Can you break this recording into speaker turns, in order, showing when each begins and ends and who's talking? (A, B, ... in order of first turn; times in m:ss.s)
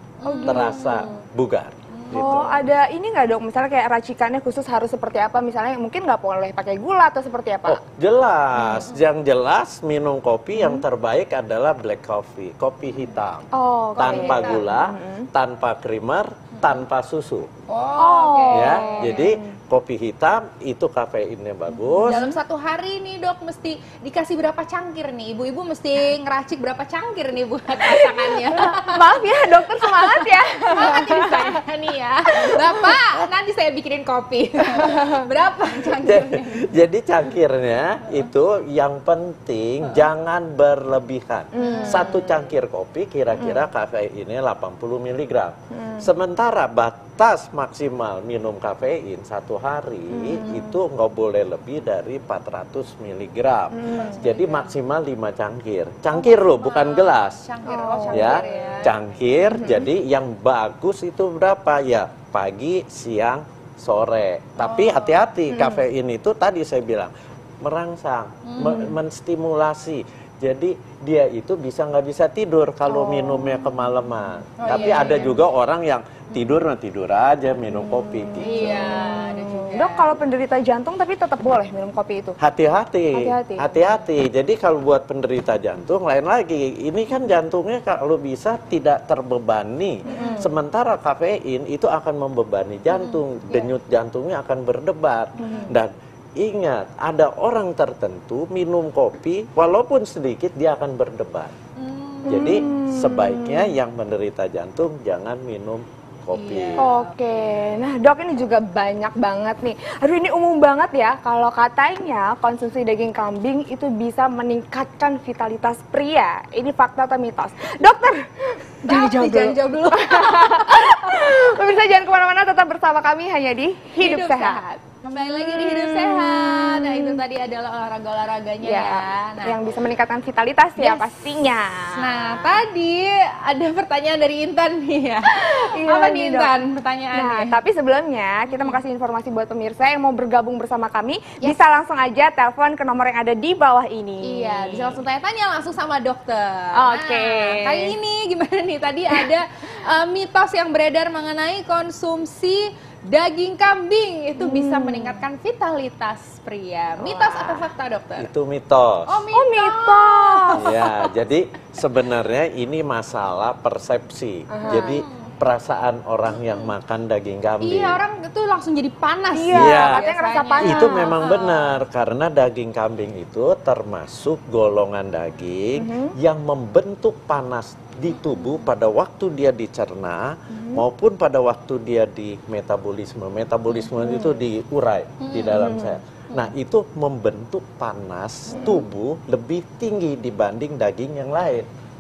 0:00.2-0:01.2 A
0:00.2-0:00.9 B
0:00.4-0:02.5 C
0:01.9-0:02.5 A
0:02.1-0:07.8 B
0:07.6-0:17.5 C
0:08.6-0:08.9 B
0:08.7-0:09.0 A
0:10.5-0:10.8 B
0:13.5-0:15.3 B
0:14.0-0:14.7 A
0:17.7-0:19.3 A
0:18.0-0:19.6 B
0:18.5-0:22.3 C
0:22.0-0:22.3 B
0:22.0-0:36.7 A
0:27.8-0:31.6 B
0:32.4-0:32.9 B
0:34.7-0:35.2 B
0:35.9-0:57.4 C
0:41.5-0:42.5 B
0:41.6-0:42.2 A
0:43.4-0:43.6 B
0:45.7-0:46.1 B
0:50.1-0:50.8 B
0:53.7-0:54.3 B
0:53.9-0:54.8 A
0:56.1-0:59.0 A
0:57.6-0:58.8 B
0:58.1-1:19.0 C
0:59.4-0:59.9 B
1:04.6-1:05.3 A
1:05.5-1:05.9 B
1:08.5-1:09.0 A
1:12.9-1:13.9 B
1:14.6-1:15.4 A
1:17.7-1:22.4 B
1:18.4-1:20.1 A
1:22.4-1:41.6 C
1:23.1-1:24.0 B
1:30.1-1:30.5 B
1:30.1-1:30.5 A
1:32.9-1:33.2 A
1:35.4-1:35.8 B
1:35.4-1:35.7 A
1:41.8-1:42.7 A
1:42.2-1:43.8 B
1:42.3-1:46.9 C
1:46.3-1:47.1 A
1:46.8-2:07.2 B
1:58.8-2:01.4 A
2:04.0-2:09.6 A
2:08.6-2:12.6 B
2:10.8-2:11.4 A
2:11.9-2:17.6 A
2:15.3-2:16.5 B
2:17.1-2:25.0 B
2:18.5-2:18.8 A
2:24.2-2:38.3 A
2:26.7-2:28.0 B
2:34.4-2:35.2 B
2:37.0-2:37.7 B
2:38.2-2:39.2 C
2:39.1-2:41.1 A
2:39.3-2:40.7 B
2:40.5-2:48.0 C
2:44.5-2:45.0 B
2:44.6-2:45.3 A
2:46.4-2:46.7 A
2:47.6-2:51.8 A
2:49.3-2:51.2 B
2:49.5-2:50.0 C
2:50.6-3:11.7 C
2:55.8-2:56.2 B
2:58.2-2:58.7 A
3:00.5-3:00.9 B
3:04.0-3:04.4 B
3:05.2-3:05.8 A
3:05.5-3:06.0 B